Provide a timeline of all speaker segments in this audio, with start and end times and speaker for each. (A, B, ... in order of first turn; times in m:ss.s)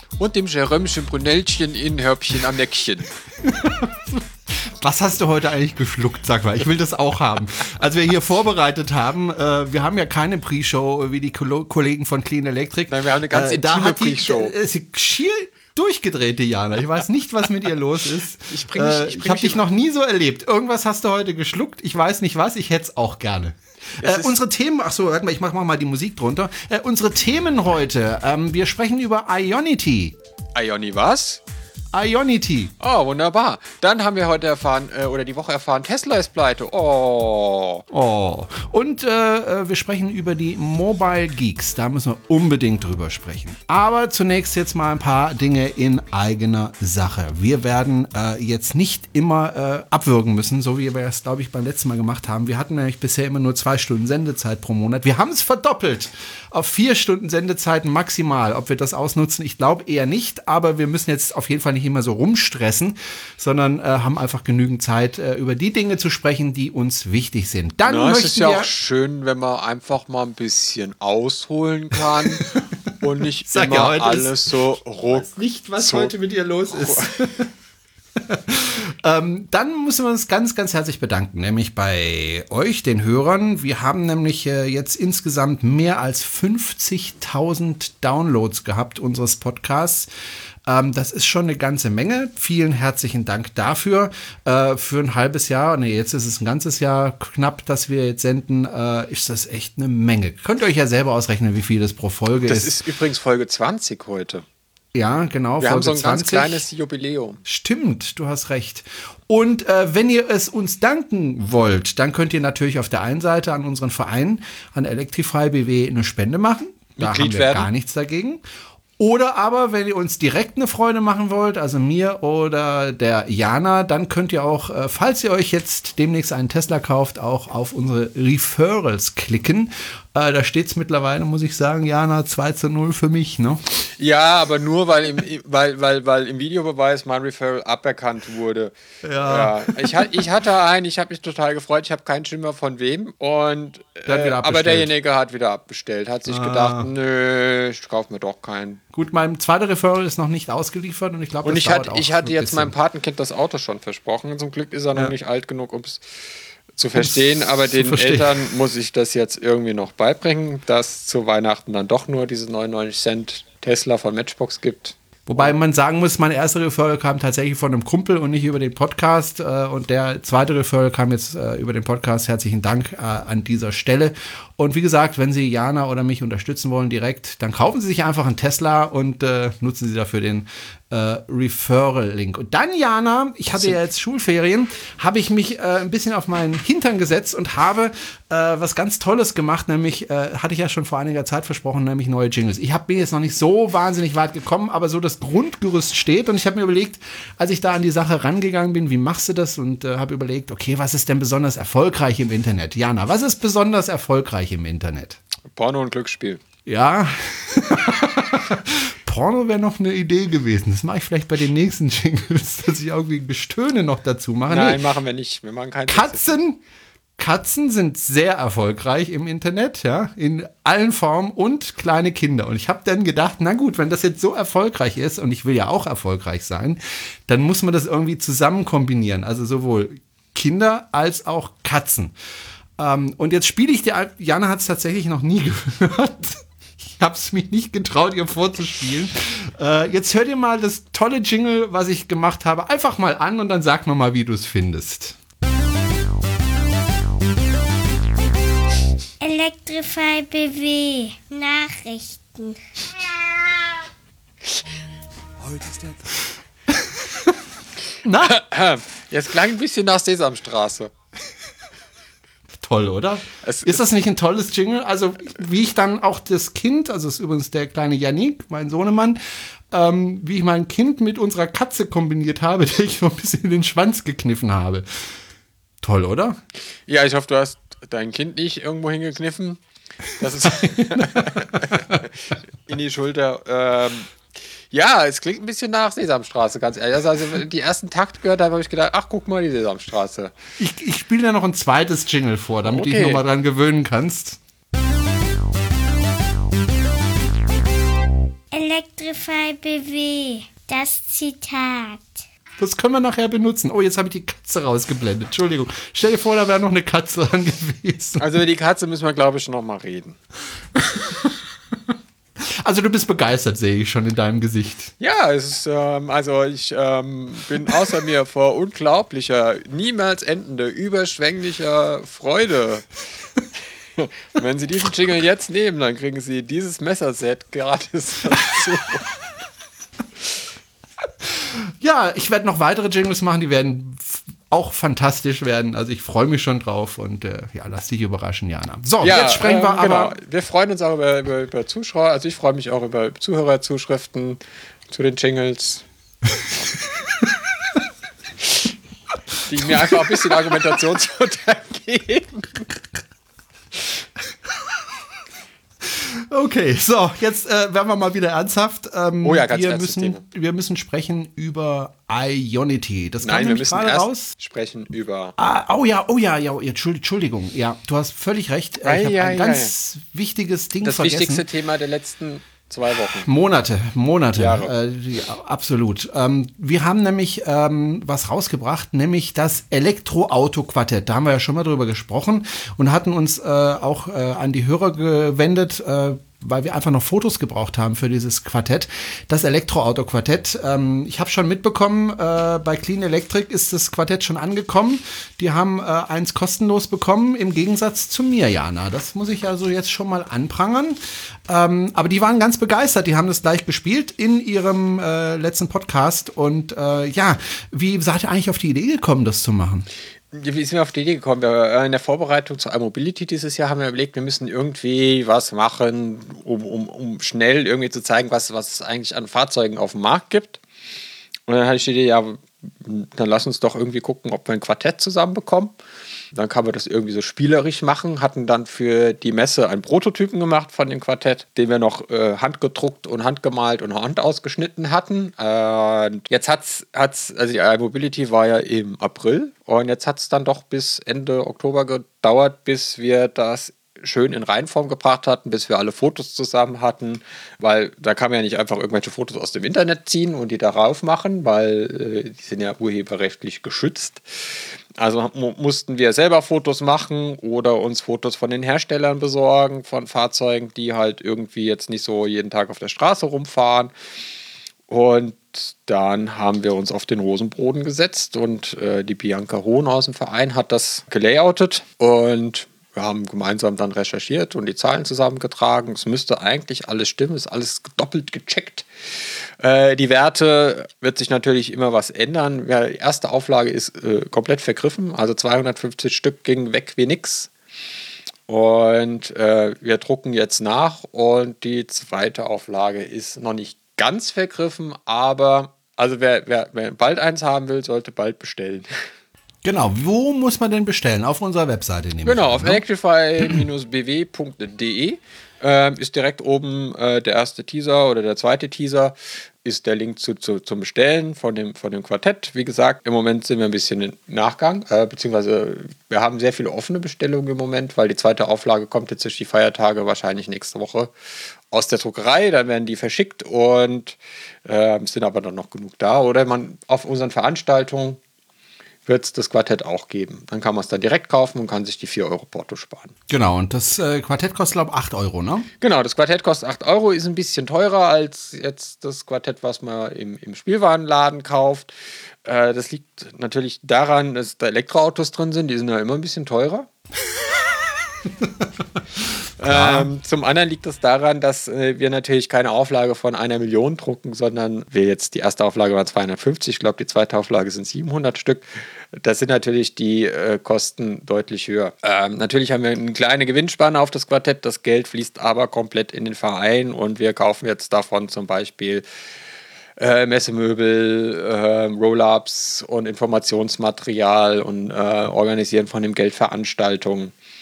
0:00.2-0:03.1 A
0:03.4-0:30.2 B
0:12.9-0:14.5 A
0:18.5-0:19.7 A
0:24.0-0:24.3 A
0:30.5-0:31.4 A
0:31.9-0:32.7 B
0:32.8-0:37.8 A
0:37.9-1:08.7 B
1:07.8-1:12.5 A
1:12.0-1:12.6 B
1:13.0-1:16.1 A
1:13.5-1:14.4 B
1:15.0-1:17.5 B
1:16.7-1:17.1 A
1:18.2-1:30.1 B
1:30.6-1:42.7 B
1:42.4-1:44.4 A
1:44.9-1:46.6 B
1:45.6-1:47.4 A
1:47.4-1:58.4 B
1:57.0-1:57.7 A
1:59.0-2:13.6 B
2:14.0-2:28.8 A
2:19.0-2:20.3 B
2:24.0-2:24.9 B
2:26.3-2:26.9 B
2:28.9-2:32.7 B
2:31.4-2:36.0 A
2:36.8-2:45.5 A
2:36.9-2:38.5 B
2:45.3-3:25.2 B
3:25.5-3:26.4 A
3:26.6-3:34.8 B
3:34.5-3:36.4 A
3:35.9-3:36.6 B
3:37.2-3:52.1 B
3:52.8-4:05.2 B
4:09.2-4:12.9 C
4:16.7-4:17.4 B
4:18.0-4:18.4 B
4:18.2-4:20.9 A
4:22.6-4:29.2 B
4:23.4-4:23.8 A
4:29.7-4:34.8 B
4:35.8-4:36.4 B
4:36.9-4:39.6 A
4:40.1-4:44.2 A
4:40.8-4:41.8 B
4:44.7-4:50.3 A
4:50.6-4:54.4 B
4:52.6-4:53.2 A
4:58.5-5:02.2 C
5:02.6-5:08.3 B
5:08.2-5:10.2 A
5:10.8-5:11.2 B
5:12.4-5:14.9 B
5:15.0-5:22.9 A
5:24.0-5:29.1 A
5:31.2-5:40.2 B
5:39.0-5:44.4 A
5:44.9-5:45.8 A
5:49.5-5:52.6 A
5:49.6-5:50.6 B
5:55.8-6:04.3 B
5:59.2-6:00.2 A
6:03.2-6:05.3 A
6:05.4-6:11.4 B
6:08.8-6:09.7 A
6:10.8-6:13.3 A
6:13.1-6:49.9 B
6:14.4-6:14.7 A
6:50.3-7:00.6 A
7:01.5-7:05.7 A
7:06.3-7:43.9 A
7:44.9-8:07.5 A
8:08.5-8:18.9 A
8:19.6-8:22.8 B
8:22.2-8:41.1 A
8:41.7-8:48.2 A
8:49.0-8:53.1 A
8:53.3-8:55.7 B
8:55.8-9:01.9 A
9:02.4-9:06.9 A
9:08.4-9:08.6 B
9:09.2-9:10.1 B
9:09.6-9:29.0 A
9:30.0-9:37.3 A